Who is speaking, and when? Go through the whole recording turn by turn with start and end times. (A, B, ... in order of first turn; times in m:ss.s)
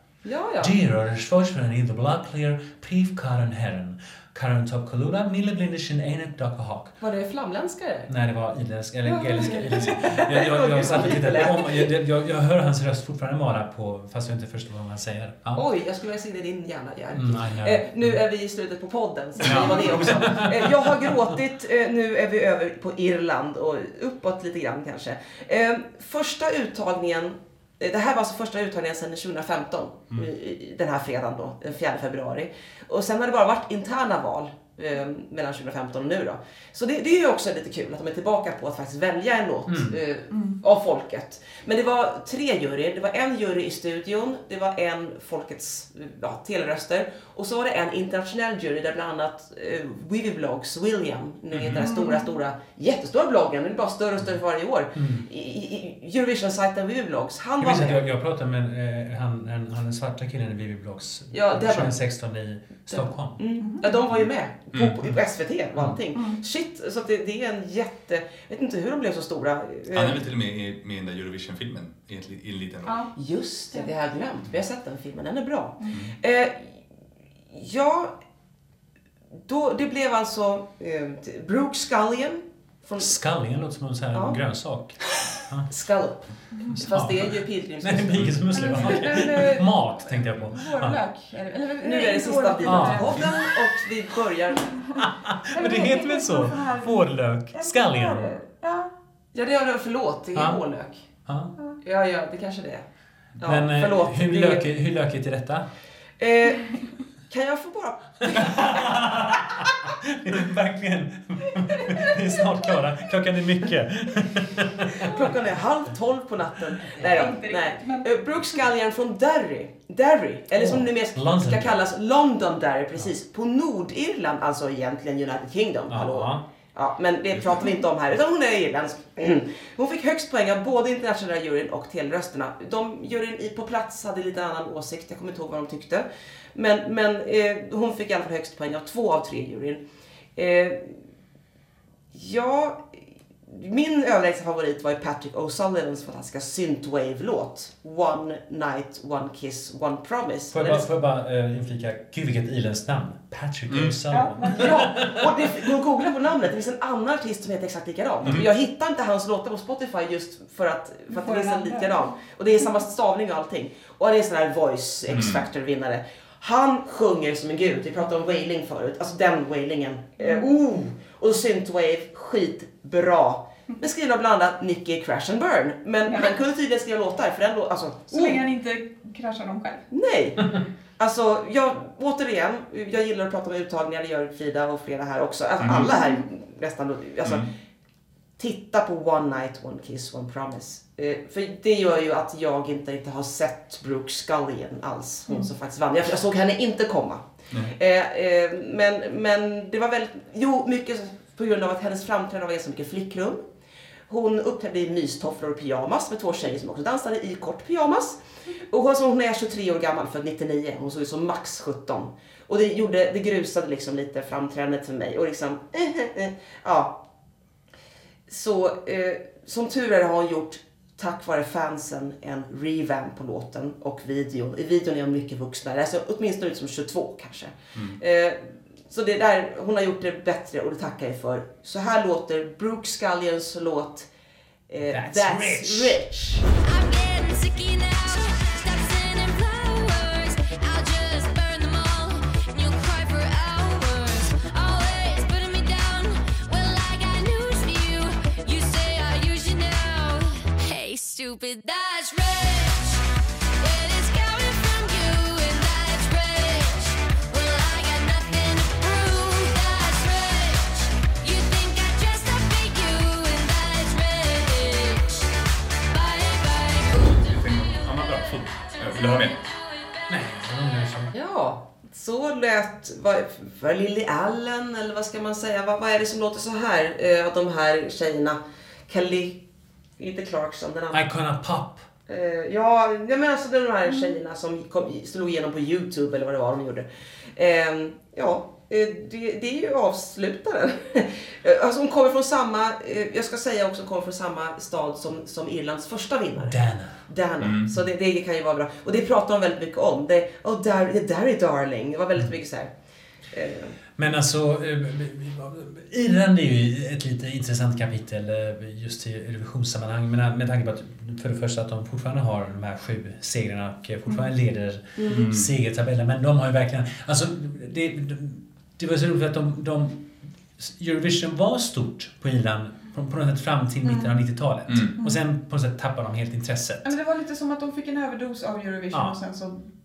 0:00.2-0:00.7 A
0:00.6-0:07.0 B
0:07.0-0:08.1 A
0:08.1-0:15.6 B
0:09.0-0:11.9 A
0:09.4-0:09.9 C
0:15.6-0:58.0 A
0:17.2-0:18.2 B
0:19.4-0:20.7 B
0:39.7-0:40.0 B
0:40.3-0:40.6 C
0:51.5-0:51.9 D
0:51.7-0:52.3 C
0:55.0-0:55.3 B
0:57.6-1:03.4 B
1:01.3-1:02.0 A
1:02.9-1:10.2 A
1:03.6-1:03.9 C
1:04.7-1:05.0 D
1:06.1-1:06.4 C
1:09.9-1:13.1 D
1:12.9-1:13.1 C
1:13.2-1:16.8 A
1:17.5-1:18.1 A
1:19.5-1:23.2 A
1:23.0-1:25.7 B
1:24.1-1:24.4 A
1:25.7-1:30.2 A
1:26.8-1:31.0 B
1:28.2-1:28.4 D
1:28.5-1:29.3 C
1:30.5-1:33.4 C
1:31.8-1:34.9 A
1:32.6-1:33.5 B
1:35.0-1:38.4 B
1:35.6-1:38.9 C
1:39.3-1:41.0 A
1:40.4-1:40.6 B
1:41.3-1:41.6 B
1:41.8-1:42.8 A
1:43.4-1:44.7 A
1:43.4-1:45.6 B
1:46.2-1:46.8 A
1:47.3-1:49.4 A
1:48.3-1:55.1 B
1:51.8-1:52.3 C
1:55.0-2:19.8 A
1:57.0-1:58.1 C
2:00.6-2:01.8 B
2:05.9-2:06.4 B
2:20.4-2:21.0 A
2:22.1-2:22.9 A
2:23.5-2:30.9 A
2:30.5-2:35.3 B
2:33.7-2:34.0 D
2:34.1-2:34.9 C
2:34.5-2:58.4 A
2:41.1-2:42.2 C
2:45.1-2:45.4 D
2:50.2-2:50.5 C
2:56.1-2:56.3 C
2:58.1-2:59.9 C
2:59.9-3:07.5 A
3:05.6-3:05.9 D
3:05.7-3:06.2 C
3:07.2-3:07.5 D
3:08.4-3:23.4 A
3:24.1-3:37.0 A
3:38.3-3:54.1 A
3:54.7-3:56.5 A
3:54.8-3:56.0 B
3:56.5-4:13.0 E
4:13.6-4:31.0 E
4:27.0-4:29.5 D
4:30.1-4:31.1 B
4:31.1-4:39.4 A
4:40.0-4:41.0 A
4:40.9-4:41.9 B
4:42.1-5:02.7 A
4:56.4-4:57.0 B
4:57.4-4:57.7 D
5:03.3-5:03.8 A
5:04.0-5:26.9 B
5:15.0-5:15.3 A
5:15.1-5:15.5 D
5:23.8-5:24.1 C
5:26.8-5:29.7 C
5:28.9-5:29.2 B